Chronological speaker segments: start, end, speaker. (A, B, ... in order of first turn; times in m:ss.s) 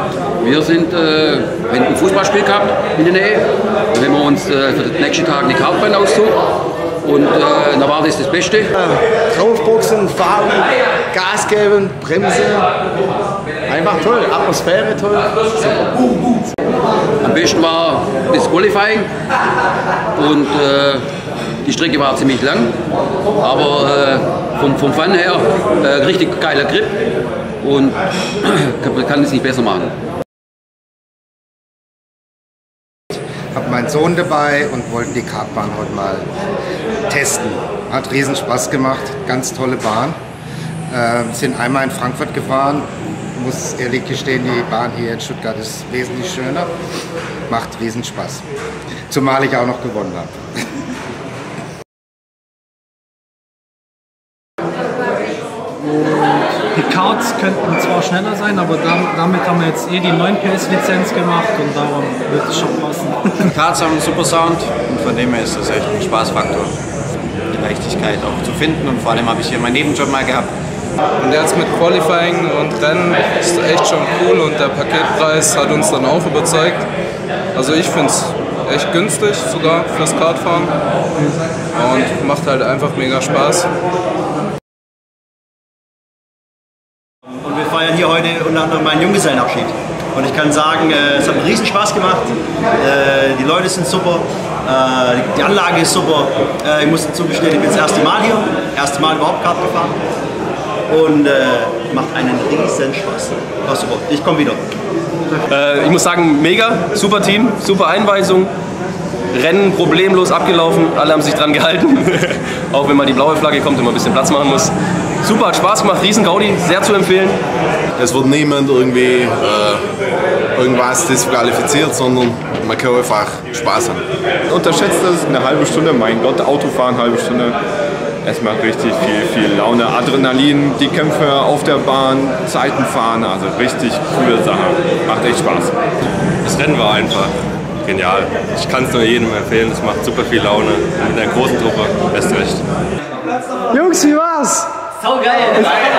0:00.4-0:06.4 A
0:07.0-0:08.7 A
0:08.9-0:12.6 B
0:13.7-0:15.7 B
0:17.2-0:19.1 A
0:20.2-0:21.0 A
0:21.6-0:22.7 A
0:23.4-0:27.0 A
0:27.6-0:29.9 A
0:33.5-0:36.3 C
0:37.1-0:40.2 C
0:40.9-0:46.7 C
0:47.5-0:48.4 C
0:49.1-0:50.3 C
0:56.7-1:03.4 D
1:03.5-1:06.7 E
1:07.5-1:10.5 E
1:11.2-1:16.9 F
1:17.6-1:23.7 F
1:27.4-1:40.0 G
1:40.9-1:44.6 G
1:45.5-1:48.5 H
1:49.3-1:57.4 H
1:58.0-1:59.8 I
2:00.6-2:04.0 I
2:04.5-2:07.6 J
2:08.2-2:15.8 J
2:16.4-2:17.3 K
2:17.8-2:22.6 K
2:23.7-2:24.7 D